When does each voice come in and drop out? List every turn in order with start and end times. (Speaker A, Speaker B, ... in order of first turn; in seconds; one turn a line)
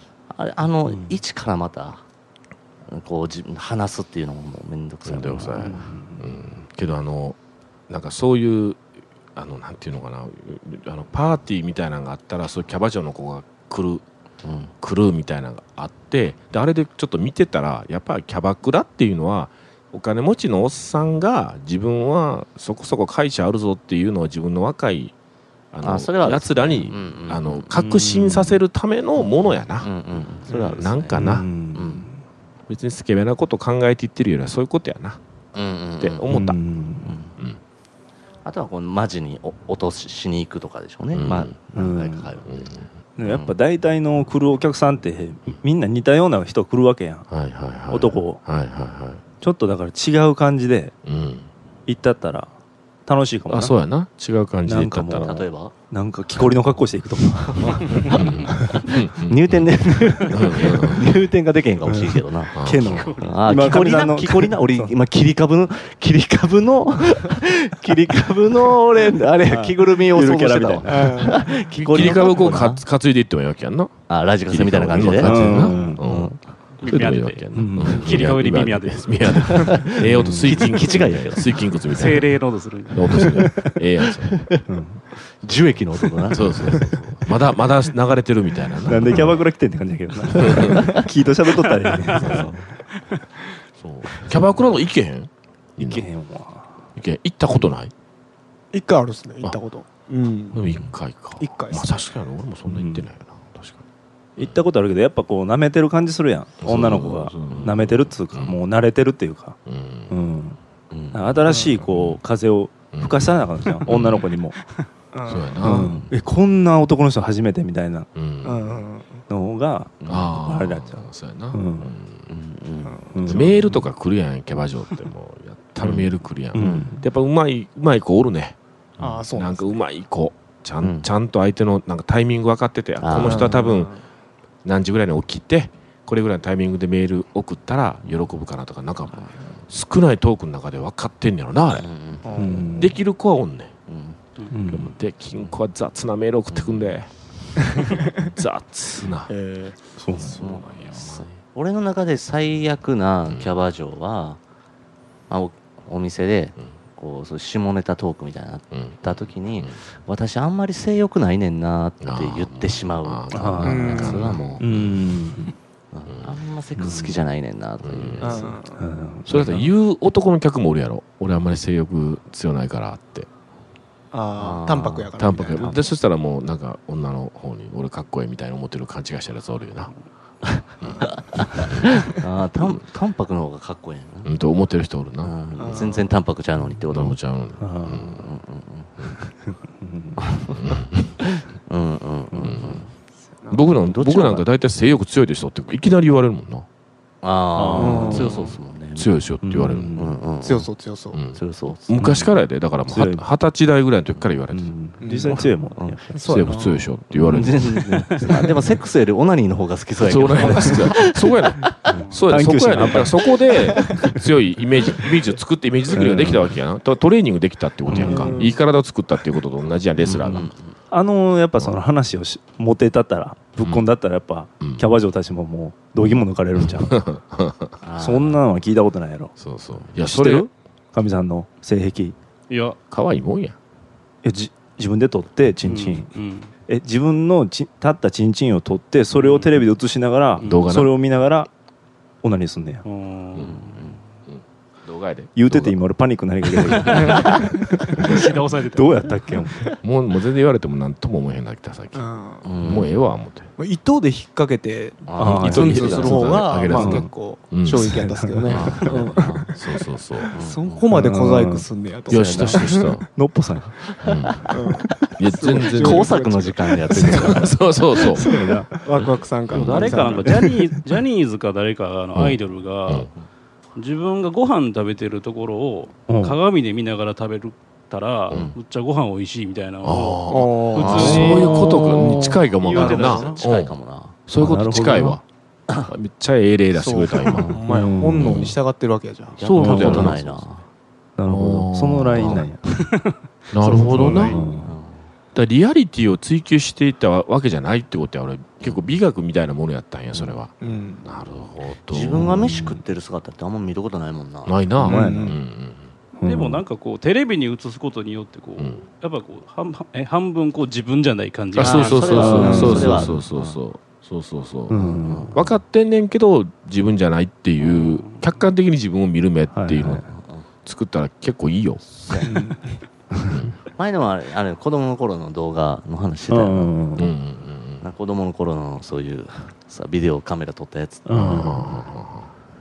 Speaker A: 0.3-2.0
Speaker B: 0.9-1.2
Speaker A: 2.9-5.8
Speaker C: 5.0-7.4
Speaker B: 5.6-6.3
Speaker C: 7.9-8.8
Speaker C: 9.4-14.0
Speaker A: 14.4-14.7
Speaker C: 14.8-25.1
Speaker C: 25.7-29.9
Speaker A: 25.8-27.6
Speaker B: 27.8-28.6
Speaker A: 29.8-32.0
Speaker C: 30.5-31.5
Speaker D: 30.5-30.8
Speaker B: 31.1-32.2
Speaker C: 32.7-35.2
Speaker A: 35.5-36.2
Speaker C: 36.0-36.6
Speaker B: 36.3-37.2
Speaker A: 37.0-37.3
Speaker A: 38.4-42.5
Speaker C: 41.1-41.5
Speaker B: 41.7-42.3
Speaker C: 42.5-43.5
Speaker B: 43.2-47.3
Speaker C: 47.3-49.2
Speaker B: 47.9-48.4
Speaker B: 49.4-50.9
Speaker C: 51.0-51.5
Speaker B: 51.9-52.5
Speaker B: 53.1-53.8
Speaker C: 53.5-55.5
Speaker B: 54.7-58.9
Speaker A: 55.2-55.7
Speaker A: 57.5-62.6
Speaker C: 58.0-61.1
Speaker B: 61.9-64.9
Speaker C: 62.5-63.1
Speaker E: 62.8-63.8
Speaker A: 63.2-72.8
Speaker B: 69.5-71.5
Speaker D: 70.9-71.4
Speaker C: 71.6-82.4
Speaker A: 74.1-76.4
Speaker B: 75.2-76.0
Speaker E: 76.8-79.7
Speaker B: 77.5-78.1
Speaker A: 79.5-81.5
Speaker B: 80.0-80.6
Speaker E: 81.9-83.3
Speaker C: 82.9-84.6
Speaker B: 83.2-83.8
Speaker A: 84.3-84.6
Speaker B: 84.7-85.0
Speaker A: 85.4-87.1
Speaker C: 86.3-89.4
Speaker B: 88.9-92.5
Speaker C: 90.3-90.9
Speaker A: 92.1-92.7
Speaker C: 93.8-96.1
Speaker B: 95.8-96.7
Speaker C: 97.0-97.9
Speaker D: 98.7-100.6
Speaker C: 100.5-103.8
Speaker D: 101.4-101.9
Speaker B: 102.7-103.1
Speaker B: 104.4-109.6
Speaker C: 106.6-108.6
Speaker C: 109.7-110.2
Speaker B: 110.1-110.6
Speaker A: 110.9-111.3
Speaker B: 111.1-114.6
Speaker C: 111.5-112.2
Speaker C: 112.9-114.3
Speaker D: 115.1-116.0
Speaker C: 115.3-116.1
Speaker B: 115.6-118.1
Speaker C: 118.2-118.8
Speaker D: 118.4-119.2
Speaker B: 119.3-121.9
Speaker C: 120.0-122.3
Speaker A: 122.3-123.4
Speaker D: 122.9-123.2
Speaker B: 123.1-123.7
Speaker C: 123.2-133.9
Speaker A: 125.8-126.9
Speaker B: 126.5-127.0
Speaker D: 129.0-129.8
Speaker A: 130.8-131.1
Speaker A: 133.0-133.6
Speaker D: 133.2-134.0
Speaker C: 134.6-141.9
Speaker A: 141.8-142.7
Speaker D: 142.2-142.8
Speaker B: 142.3-142.9
Speaker C: 142.7-143.7
Speaker A: 143.9-144.2
Speaker B: 144.5-144.9
Speaker C: 144.7-147.1
Speaker A: 146.5-146.9
Speaker C: 147.7-149.3
Speaker D: 147.8-148.1
Speaker D: 149.3-149.8
Speaker B: 150.0-150.4
Speaker C: 150.2-151.4
Speaker A: 150.3-154.4
Speaker C: 153.3-153.5
Speaker A: 155.3-164.6
Speaker C: 158.7-159.8
Speaker C: 162.0-164.9
Speaker B: 163.3-164.0
Speaker D: 163.6-164.4
Speaker B: 164.6-165.6
Speaker A: 165.9-168.6
Speaker C: 166.1-166.4
Speaker B: 166.8-167.2
Speaker C: 167.8-168.5
Speaker D: 168.2-168.8
Speaker B: 168.7-169.7
Speaker C: 169.3-173.3
Speaker D: 174.1-175.8
Speaker A: 174.4-175.1
Speaker C: 175.2-179.9
Speaker A: 180.4-184.3
Speaker C: 181.7-181.9
Speaker C: 184.2-185.3
Speaker A: 185.2-187.2
Speaker D: 185.6-186.1
Speaker C: 186.9-188.2
Speaker B: 187.6-188.2
Speaker A: 188.1-189.2
Speaker B: 189.8-190.2
Speaker A: 190.2-192.9
Speaker C: 190.5-191.2
Speaker C: 192.4-192.8
Speaker D: 193.4-193.7
Speaker C: 193.5-196.7
Speaker A: 193.8-194.5
Speaker A: 197.2-199.1
Speaker B: 197.6-198.3
Speaker D: 197.8-198.5
Speaker C: 198.1-200.0
Speaker B: 199.4-200.2
Speaker A: 200.0-200.7
Speaker D: 200.4-201.3
Speaker C: 201.1-204.7
Speaker A: 201.3-202.3
Speaker B: 202.9-203.2
Speaker B: 204.5-206.5
Speaker D: 205.0-205.5
Speaker A: 205.4-206.5
Speaker D: 206.1-206.9
Speaker C: 206.2-208.5
Speaker A: 207.0-212.1
Speaker B: 207.3-208.5
Speaker C: 210.0-220.5
Speaker B: 212.3-214.1
Speaker B: 215.9-216.5
Speaker B: 217.9-218.5
Speaker D: 218.0-218.6
Speaker A: 220.0-220.7
Speaker B: 220.9-227.0
Speaker C: 224.6-224.9
Speaker C: 226.6-227.8
Speaker A: 227.8-228.4
Speaker B: 228.0-229.3
Speaker C: 229.4-230.5
Speaker B: 230.0-232.2
Speaker E: 232.5-232.8
Speaker C: 232.9-233.6
Speaker B: 234.2-236.1
Speaker E: 235.6-236.5
Speaker B: 236.7-241.5
Speaker E: 239.1-239.5
Speaker C: 240.4-241.0
Speaker B: 242.2-242.8
Speaker E: 242.8-244.0
Speaker C: 243.3-243.7
Speaker A: 243.7-243.9
Speaker C: 244.3-245.8
Speaker B: 245.3-249.7
Speaker E: 248.0-249.2
Speaker C: 249.8-252.1
Speaker D: 251.9-252.5
Speaker A: 252.4-252.9
Speaker C: 252.6-253.5
Speaker D: 253.6-259.5
Speaker A: 255.1-256.4
Speaker B: 255.2-256.0
Speaker C: 255.4-260.3
Speaker B: 256.7-257.1
Speaker B: 257.8-258.8
Speaker A: 258.5-259.5
Speaker D: 260.2-263.0
Speaker A: 260.3-260.9
Speaker B: 260.9-262.6
Speaker C: 262.1-263.1
Speaker B: 263.1-263.8
Speaker C: 264.0-266.3
Speaker A: 264.0-264.5
Speaker D: 264.5-267.3
Speaker A: 265.7-267.6
Speaker C: 266.9-268.3
Speaker B: 268.0-268.8
Speaker D: 268.1-270.4
Speaker C: 269.5-270.2
Speaker E: 269.5-273.1
Speaker B: 270.2-270.6
Speaker C: 272.1-273.1
Speaker E: 273.8-283.4
Speaker B: 276.1-276.4
Speaker C: 278.3-278.6
Speaker C: 279.8-283.8
Speaker D: 280.3-282.2
Speaker A: 282.0-284.1
Speaker C: 284.3-285.2
Speaker B: 284.4-285.2
Speaker C: 285.8-287.6
Speaker D: 286.8-289.4
Speaker A: 287.2-287.6
Speaker B: 287.7-288.5
Speaker C: 288.2-288.5
Speaker A: 289.4-290.6
Speaker C: 289.4-290.4
Speaker B: 289.5-290.1
Speaker B: 291.2-292.9
Speaker C: 291.3-292.5
Speaker E: 292.8-293.1
Speaker C: 293.5-294.4
Speaker D: 293.6-294.4
Speaker B: 293.8-294.7
Speaker A: 294.4-295.1
Speaker C: 295.3-300.5
Speaker D: 300.6-301.1
Speaker C: 301.0-302.6
Speaker A: 301.9-304.6
Speaker B: 302.2-302.8
Speaker C: 304.5-305.9
Speaker B: 304.8-305.2
Speaker D: 304.8-305.4
Speaker B: 306.2-306.6
Speaker E: 306.2-312.9
Speaker C: 311.6-320.1
Speaker A: 311.6-313.6
Speaker B: 312.1-313.2
Speaker D: 312.4-312.8
Speaker B: 314.7-315.4
Speaker A: 315.0-315.4
Speaker E: 317.7-318.3
Speaker B: 319.5-320.1
Speaker A: 320.1-320.5
Speaker C: 320.6-322.2
Speaker A: 321.9-322.4
Speaker D: 322.2-322.8
Speaker C: 323.3-323.6
Speaker A: 323.7-326.9
Speaker B: 326.3-327.1
Speaker C: 327.0-327.9
Speaker A: 327.8-331.6
Speaker B: 331.1-331.8
Speaker C: 331.1-332.3